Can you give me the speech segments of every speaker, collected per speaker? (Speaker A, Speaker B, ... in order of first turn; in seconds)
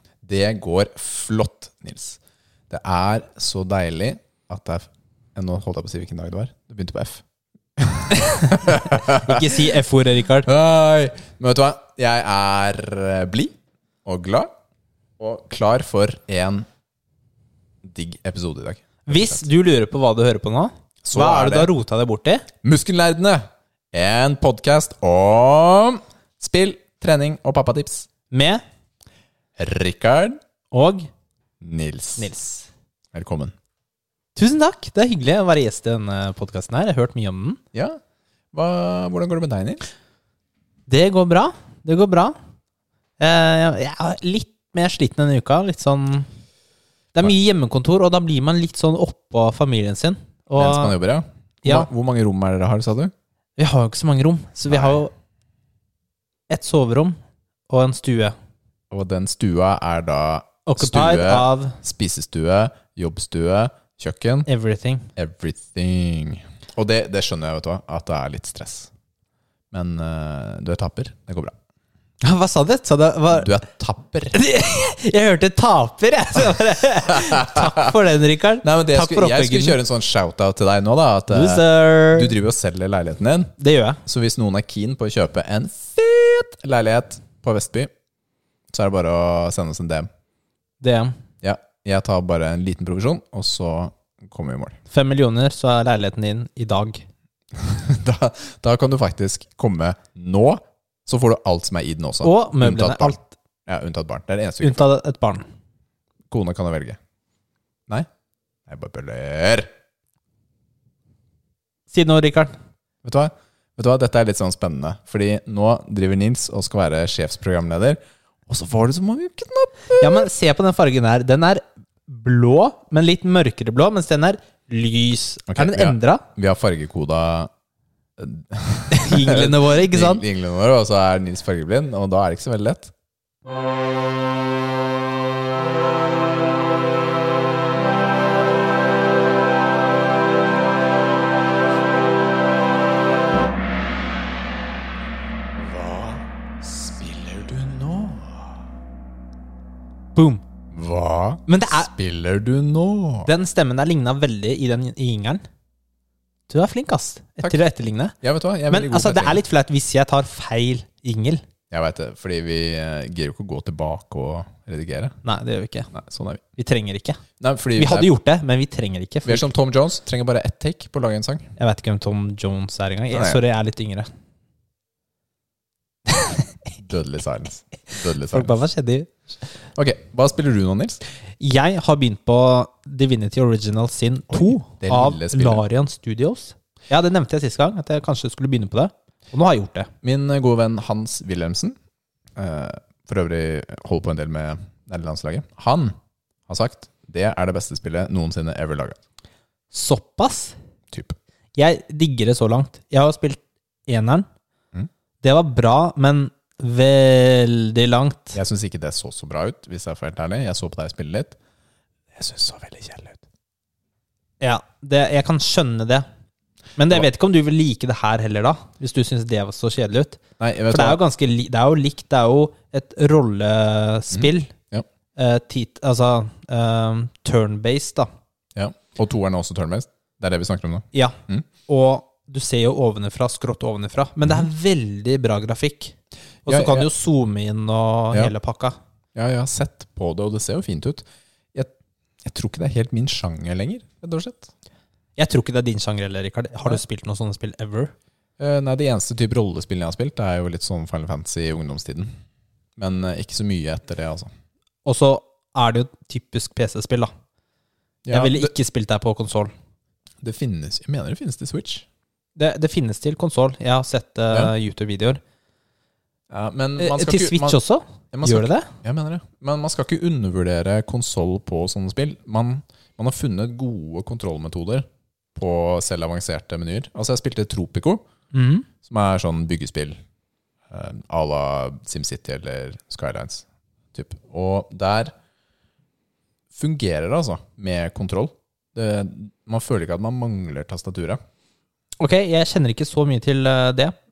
Speaker A: 0.2-7.2, 7.8-9.6, 10.4-14.5, 15.2-16.7, 17.8-19.4, 21.0-21.7, 22.6-28.1, 29.6-30.4, 31.6-32.3, 33.1-33.5, 37.7-38.0, 38.5-39.8, 50.6-53.1, 54.7-55.0, 58.9-64.5, 65.2-68.9, 69.7-71.5, 73.3-74.3, 77.1-77.9, 78.6-83.5, 84.0-87.9, 88.7-90.1, 91.4-94.8, 97.5-104.9, 106.3-107.0, 108.7-109.7, 113.0-120.3, 125.5-127.5, 128.2-132.9, 145.6-148.6, 150.7-153.3, 158.2-159.4, 161.7-165.2, 165.9-166.4, 167.4-168.1, 169.2-171.5, 173.1-173.4, 176.8-178.5, 179.8-181.0, 184.3-185.6, 190.0-191.8, 192.4-195.9, 196.5-199.0, 200.9-201.2, 208.3-211.4, 212.2-213.2, 220.4-221.0, 224.1-224.9, 228.6-231.5, 236.5-236.9, 239.2-241.7, 242.2-244.5, 248.4-252.1, 252.8-254.3, 258.1-258.5, 260.2-261.9, 266.3-267.6, 268.1-278.0, 278.8-280.0, 280.7-285.1, 286.5-291.2
Speaker B: 8.1-10.5, 19.1-22.5, 28.3-28.6, 30.7-31.1, 32.2-32.7, 34.4-37.6, 40.9-42.4, 43.2-46.3, 47.1-51.0, 51.6-51.9, 53.6-55.1, 56.5-57.2, 57.7-58.4, 60.6-61.8, 64.5-65.1, 72.2-73.5, 74.3-79.8, 81.3-82.3, 83.6-84.0, 90.8-91.2, 94.9-97.0, 102.2-103.3, 104.6-105.5, 111.9-112.6, 120.0-126.2, 128.9-130.2, 150.2-150.4, 151.5-151.9, 153.2-155.4, 156.5-158.2, 158.7-161.4, 165.2-165.9, 166.6-167.2, 167.8-169.5, 171.6-174.1, 176.1-176.4, 178.3-179.1, 181.4-189.9, 199.7-200.6, 201.6-204.3, 205.2-208.4, 214.4-216.1, 216.8-224.5, 225.2-228.1, 230.9-235.9, 236.5-238.8, 245.2-247.9, 254.8-257.1, 258.1-259.5, 262.4-265.2, 266.8-268.7, 278.3-278.7, 292.0-293.9